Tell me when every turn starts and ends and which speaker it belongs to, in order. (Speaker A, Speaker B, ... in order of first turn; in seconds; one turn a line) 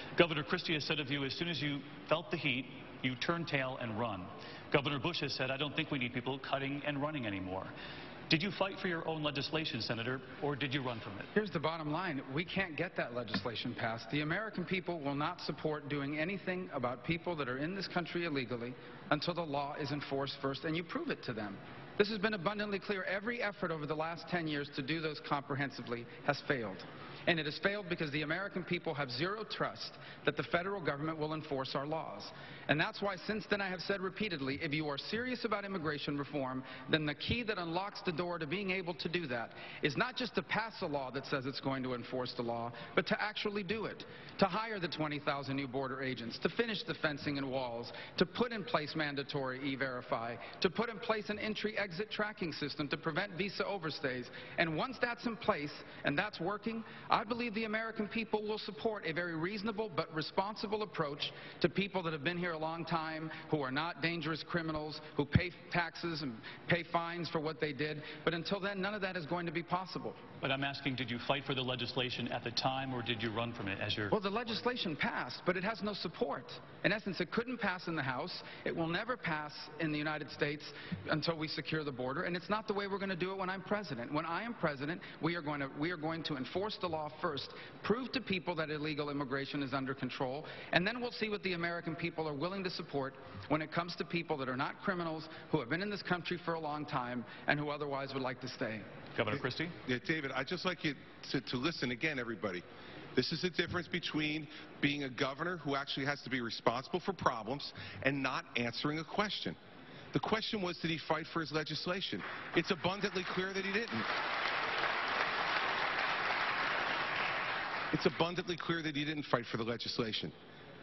Speaker A: 0.2-7.7
Speaker A: 8.3-11.3
Speaker B: 11.3-70.2
Speaker A: 70.4-74.1
Speaker B: 74.1-98.9
Speaker A: 99.2-99.8
Speaker C: 99.8-102.6
Speaker C: 103.2-109.6
Speaker C: 110.1-114.1
Speaker C: 117.9-120.3